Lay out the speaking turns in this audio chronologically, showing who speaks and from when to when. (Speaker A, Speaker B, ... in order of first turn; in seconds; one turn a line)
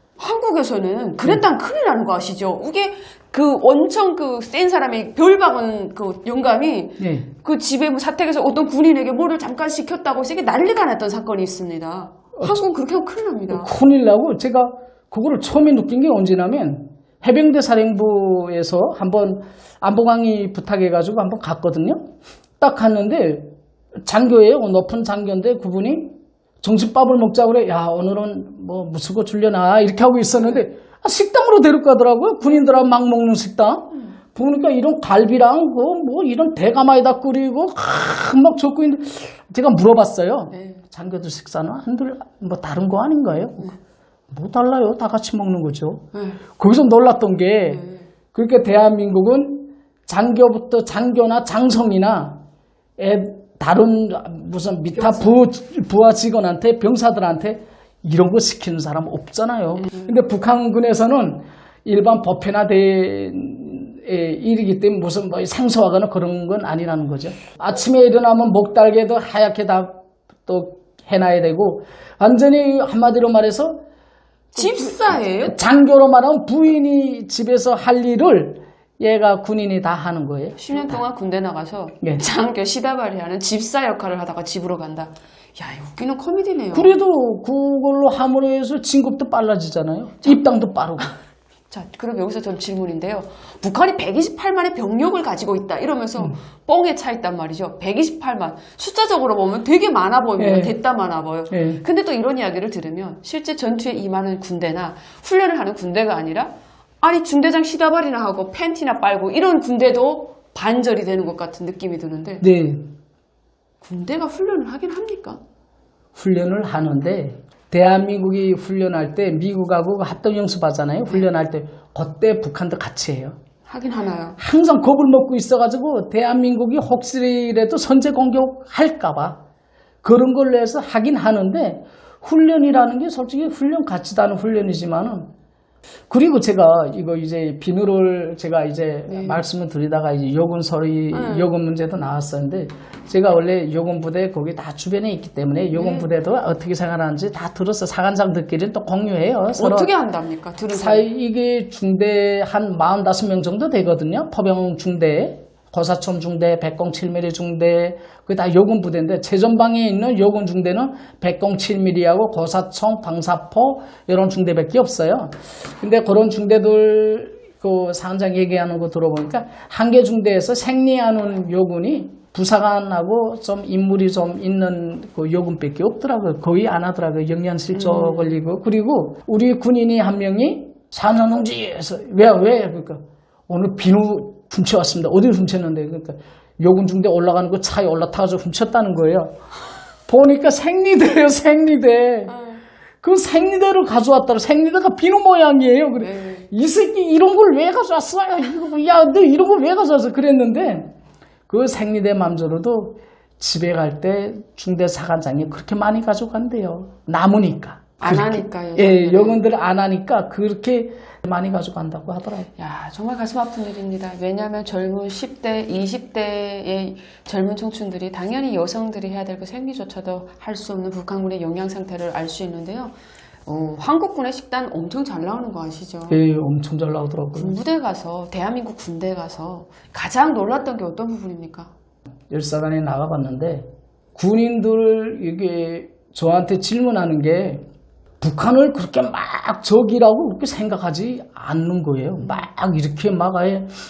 Speaker A: 0.2-13.7
Speaker B: 7.0-7.3
Speaker B: 13.5-43.7
Speaker A: 40.5-40.8
Speaker B: 44.3-46.1
Speaker A: 46.1-46.4
Speaker B: 46.6-52.4
Speaker A: 47.7-48.1
Speaker B: 53.0-73.8
Speaker A: 55.0-55.4
Speaker A: 59.8-60.1
Speaker B: 74.5-81.0
Speaker A: 74.5-75.6
Speaker A: 80.6-86.9
Speaker B: 86.7-91.1
Speaker A: 91.7-112.5
Speaker B: 100.4-100.8
Speaker B: 101.5-101.8
Speaker B: 112.4-112.9
Speaker A: 113.8-115.4
Speaker B: 116.2-123.4
Speaker A: 123.7-124.4
Speaker B: 124.4-129.4
Speaker B: 130.0-135.3
Speaker B: 136.1-149.9
Speaker A: 139.1-139.4
Speaker A: 141.1-141.5
Speaker A: 145.7-146.1
Speaker A: 149.6-151.1
Speaker B: 150.7-189.4
Speaker A: 177.7-178.4
Speaker B: 190.1-192.3
Speaker A: 192.3-192.6
Speaker B: 193.0-200.9
Speaker A: 196.0-196.5
Speaker B: 201.5-212.5
Speaker A: 208.0-209.4
Speaker A: 212.6-222.9
Speaker A: 223.5-226.2
Speaker B: 226.1-227.6
Speaker A: 227.3-231.7
Speaker B: 232.3-237.7
Speaker B: 238.2-243.7
Speaker A: 242.2-242.4